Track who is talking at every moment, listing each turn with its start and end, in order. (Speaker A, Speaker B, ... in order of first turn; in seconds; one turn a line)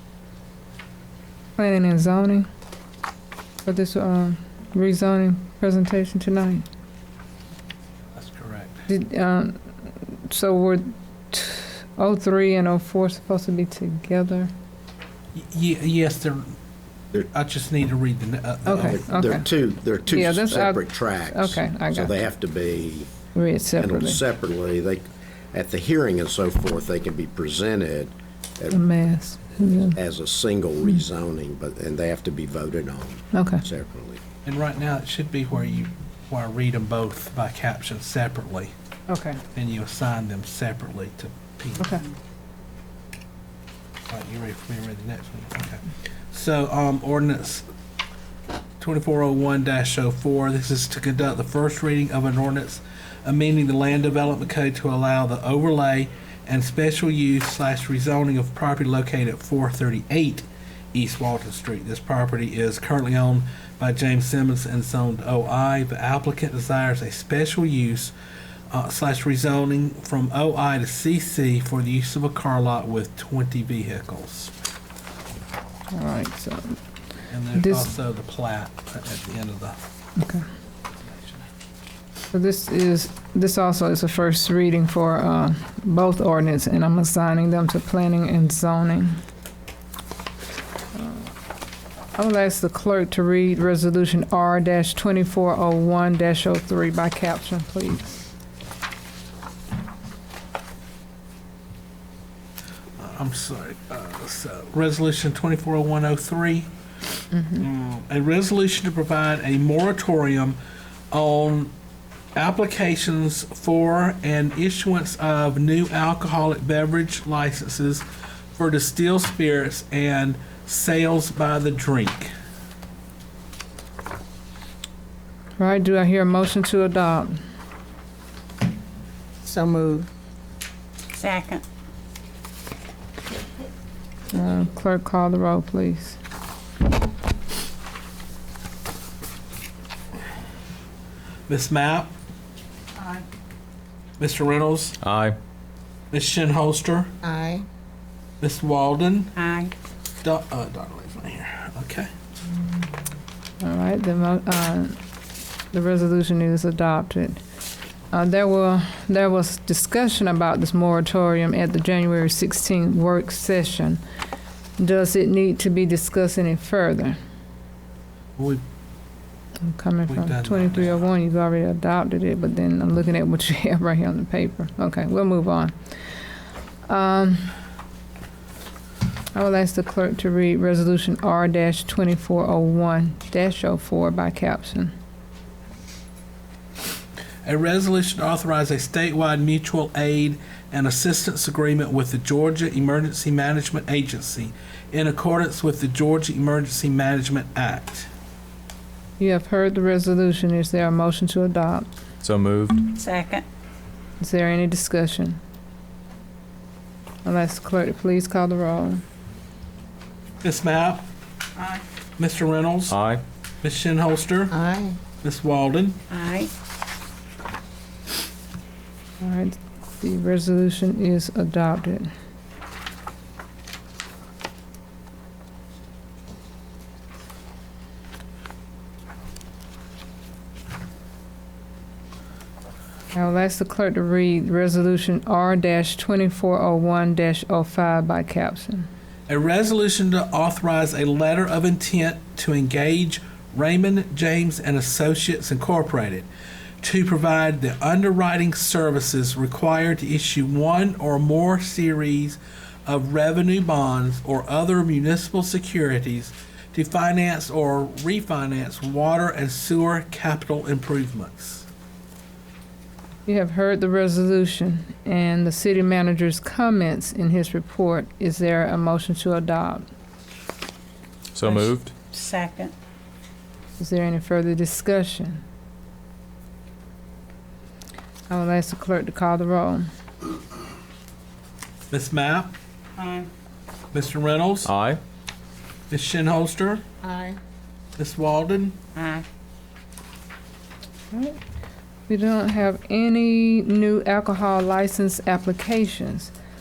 Speaker A: 1.6-2.5
Speaker A: 3.6-6.7
Speaker B: 8.2-8.8
Speaker A: 8.9-14.5
Speaker B: 15.3-16.5
Speaker B: 17.3-19.1
Speaker A: 18.7-19.5
Speaker C: 18.9-23.1
Speaker A: 20.1-22.2
Speaker A: 23.3-24.2
Speaker C: 23.8-28.8
Speaker A: 28.7-30.0
Speaker C: 29.9-34.2
Speaker A: 33.3-33.6
Speaker B: 34.5-38.7
Speaker A: 39.1-39.4
Speaker B: 39.5-41.9
Speaker B: 44.1-47.7
Speaker B: 48.8-68.1
Speaker B: 68.7-74.5
Speaker A: 75.9-76.8
Speaker B: 77.3-79.8
Speaker A: 77.5-77.9
Speaker A: 80.2-80.5
Speaker A: 82.3-89.2
Speaker A: 90.9-91.3
Speaker A: 92.2-98.2
Speaker B: 103.0-106.7
Speaker A: 107.3-107.7
Speaker B: 107.6-110.6
Speaker B: 111.1-111.7
Speaker B: 112.4-122.3
Speaker A: 125.6-127.4
Speaker D: 129.4-130.1
Speaker E: 131.2-131.6
Speaker A: 134.3-136.2
Speaker B: 141.5-142.1
Speaker E: 143.0-143.2
Speaker B: 144.2-145.0
Speaker F: 145.0-145.4
Speaker B: 146.1-147.1
Speaker D: 147.2-147.7
Speaker B: 148.4-149.3
Speaker E: 149.4-149.7
Speaker B: 150.2-152.1
Speaker A: 153.6-155.0
Speaker A: 155.7-157.4
Speaker A: 158.1-164.0
Speaker A: 164.8-167.2
Speaker A: 169.6-175.8
Speaker B: 170.1-171.0
Speaker A: 176.9-177.5
Speaker A: 179.3-184.9
Speaker B: 187.4-198.1
Speaker A: 199.2-201.9
Speaker F: 202.2-202.8
Speaker E: 202.9-203.4
Speaker A: 204.2-205.4
Speaker A: 207.2-209.0
Speaker B: 210.4-211.1
Speaker E: 211.6-211.8
Speaker B: 212.2-212.9
Speaker F: 212.9-213.2
Speaker B: 213.6-214.6
Speaker D: 214.5-215.0
Speaker B: 215.2-216.0
Speaker E: 216.1-216.5
Speaker A: 219.2-222.1
Speaker A: 233.1-238.9
Speaker B: 239.3-246.3
Speaker B: 246.8-261.7
Speaker A: 263.3-269.9
Speaker F: 271.3-271.9
Speaker E: 272.1-272.7
Speaker A: 273.8-275.4
Speaker A: 278.3-279.9
Speaker B: 281.9-282.5
Speaker E: 283.0-283.3
Speaker B: 283.9-284.7
Speaker F: 284.6-285.0
Speaker B: 285.9-286.8
Speaker D: 287.0-287.4
Speaker B: 288.0-288.8
Speaker E: 288.9-289.2
Speaker A: 291.1-291.4
Speaker A: 292.1-296.3